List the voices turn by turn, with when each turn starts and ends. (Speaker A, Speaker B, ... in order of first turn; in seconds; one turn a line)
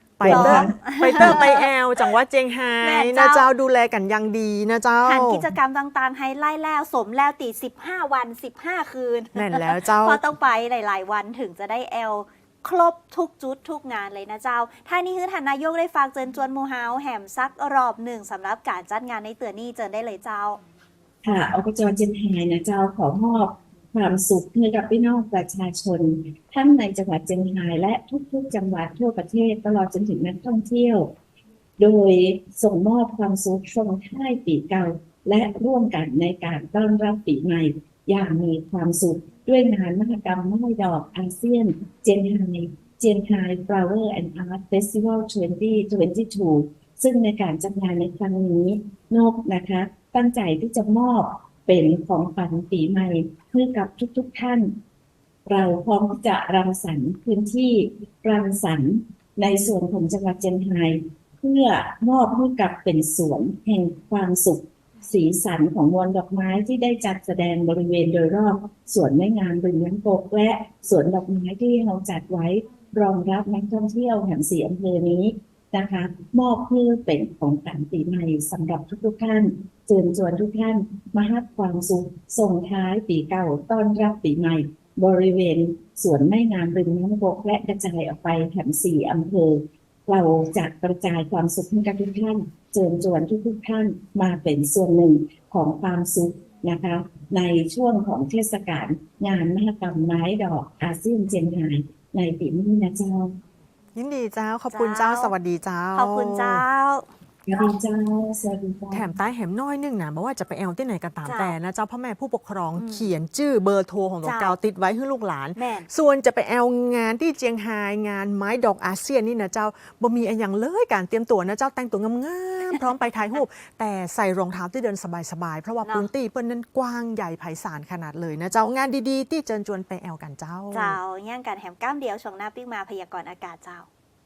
Speaker A: 0.2-5.5
Speaker B: 0.2-1.5
Speaker C: 0.3-1.7
Speaker C: 2.8-3.5
Speaker C: 5.0-20.6
Speaker A: 9.4-10.2
Speaker B: 21.2-31.1
Speaker B: 31.8-54.8
Speaker B: 55.5-103.3
Speaker A: 104.0-106.6
Speaker C: 104.7-105.3
Speaker C: 106.0-107.1
Speaker B: 107.5-109.1
Speaker A: 108.9-131.0
Speaker C: 111.2-111.5
Speaker C: 112.8-113.1
Speaker C: 114.2-114.6
Speaker C: 115.6-115.9
Speaker C: 130.7-133.9